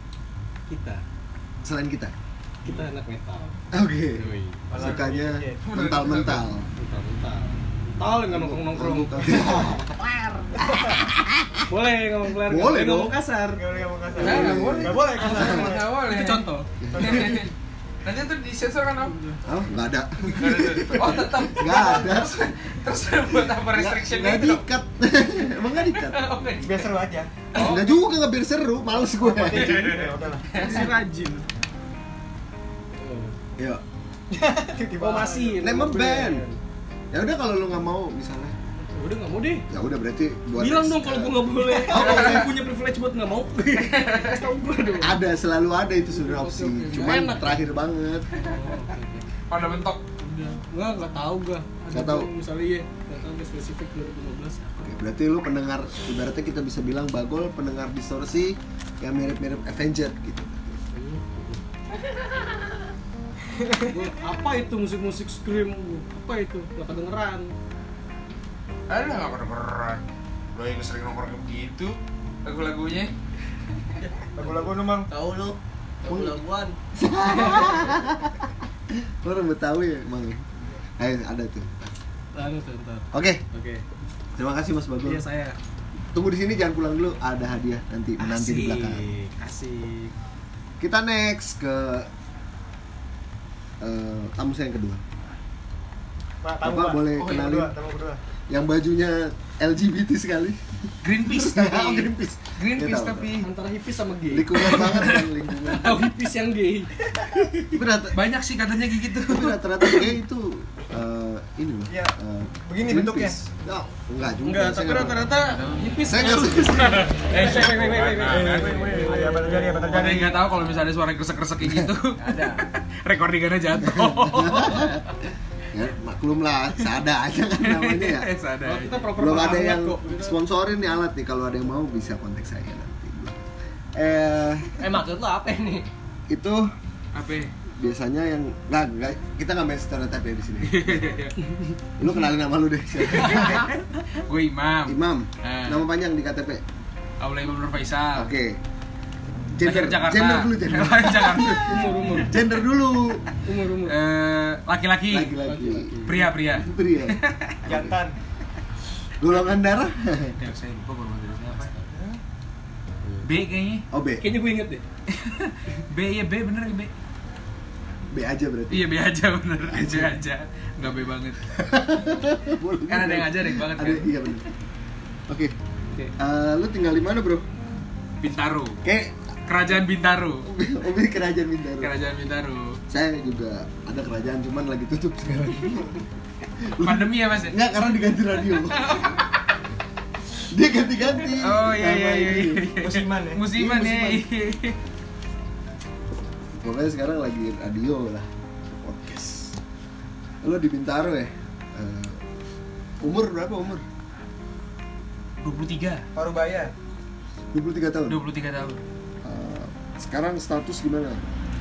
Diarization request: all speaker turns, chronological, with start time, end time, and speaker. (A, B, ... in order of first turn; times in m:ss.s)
0:00.7-0:01.0 A
0:01.6-0:02.1 B
0:02.6-0:03.6 A
0:03.7-0:06.7 B
0:04.1-0:04.8 A
0:04.7-0:05.6 C
0:05.6-0:06.4 D
0:06.8-0:10.8 A
0:08.3-0:09.8 B
0:10.6-0:11.7 B
0:11.7-0:13.6 A
0:12.4-0:13.2 B
0:13.6-0:15.8 C
0:14.2-0:15.7 B
0:14.2-0:17.5 D
0:15.3-0:15.5 A
0:16.0-0:16.7 A
0:16.8-0:17.4 B
0:16.9-0:17.4 C
0:18.0-0:19.2 D
0:19.0-0:19.4 A
0:19.4-0:22.5 B
0:20.3-0:24.6 D
0:23.7-0:26.2 B
0:25.9-0:28.0 D
0:26.6-0:27.3 C
0:27.5-0:29.9 B
0:29.1-0:30.5 C
0:29.5-0:30.9 D
0:30.5-0:31.4 A
0:32.9-0:33.3 A
0:34.3-0:35.6 C
0:35.0-0:36.6 A
0:35.6-0:36.4 B
0:37.1-0:38.5 B
0:38.8-0:39.6 A
0:39.7-0:42.5 B
0:40.6-0:45.2 A
0:41.9-0:42.4 D
0:43.8-0:44.4 D
0:45.0-0:48.3 B
0:46.1-0:47.7 A
0:48.3-0:49.2 A
0:49.5-0:50.0 D
0:50.2-0:54.8 A
0:51.9-0:52.3 B
0:54.8-1:00.8 B
1:00.9-1:01.6 A
1:03.7-1:07.5 A
1:08.9-1:10.0 D
1:10.5-1:13.1 D
1:14.4-1:15.1 C
1:14.4-1:16.8 E
1:16.1-1:16.4 B
1:16.9-1:20.4 B
1:17.5-1:17.8 A
1:21.0-1:21.9 B
1:22.3-1:23.8 A
1:23.1-1:23.4 B
1:24.4-1:25.2 B
1:25.0-1:25.6 A
1:26.1-1:29.1 B
1:28.2-1:30.1 A
1:30.8-1:32.1 B
1:33.8-1:35.0 B
1:36.4-1:38.2 C
1:36.6-1:37.7 B
1:38.5-1:43.3 B
1:41.0-1:43.5 D
1:43.4-1:47.7 A
1:44.3-1:46.0 B
1:44.6-1:45.2 D
1:47.7-1:48.2 B
1:48.1-1:50.1 D
1:49.2-1:55.3 B
1:51.9-1:53.4 C
1:54.4-2:00.1 A
1:55.4-2:05.0 D
1:56.0-1:57.2 B
1:57.3-2:00.4 C
2:01.6-2:01.9 B
2:02.3-2:02.6 A
2:03.8-2:05.0 B
2:05.7-2:08.3 B
2:07.6-2:09.1 D
2:08.6-2:10.4 A
2:09.2-2:13.4 B
2:13.9-2:14.9 B
2:14.8-2:15.8 E
2:16.3-2:16.7 B
2:17.1-2:17.5 D
2:17.8-2:21.0 B
2:20.6-2:21.4 D
2:22.0-2:23.7 B
2:23.2-2:25.8 D
2:24.9-2:26.6 B
2:27.2-2:28.3 D
2:28.2-2:28.6 B
2:29.5-2:33.2 B
2:29.6-2:32.2 D
2:31.6-2:32.4 A
2:33.4-2:34.0 A
2:33.8-2:35.4 D
2:35.1-2:38.0 B
2:35.4-2:36.3 A
2:36.0-2:37.6 D
2:37.6-2:38.1 C
2:39.2-2:40.4 B
2:40.4-2:41.7 D
2:41.7-2:42.2 A
2:43.0-2:43.3 A
2:43.2-2:43.8 D
2:43.9-2:44.3 B
2:44.2-2:44.8 A
2:45.1-2:46.9 D
2:48.1-2:48.9 B
2:48.7-2:51.4 D
2:49.7-2:50.2 B
2:51.5-2:54.4 B
2:52.9-2:54.1 D
2:55.3-2:55.5 B
2:56.2-2:57.4 B
2:58.2-2:58.8 D
2:58.8-2:59.2 B
2:59.5-3:00.5 D
3:00.4-3:01.9 B
3:01.8-3:02.8 D
3:02.9-3:06.0 B
3:06.6-3:09.0 B
3:06.8-3:09.3 D
3:10.5-3:12.0 B
3:11.2-3:14.8 D
3:11.7-3:13.4 C
3:13.5-3:14.2 B
3:16.6-3:19.6 B
3:20.4-3:22.2 B
3:23.0-3:23.8 B
3:25.4-3:26.0 D
3:26.1-3:26.7 C
3:27.5-3:28.2 B
3:28.1-3:28.8 D
3:29.2-3:31.2 B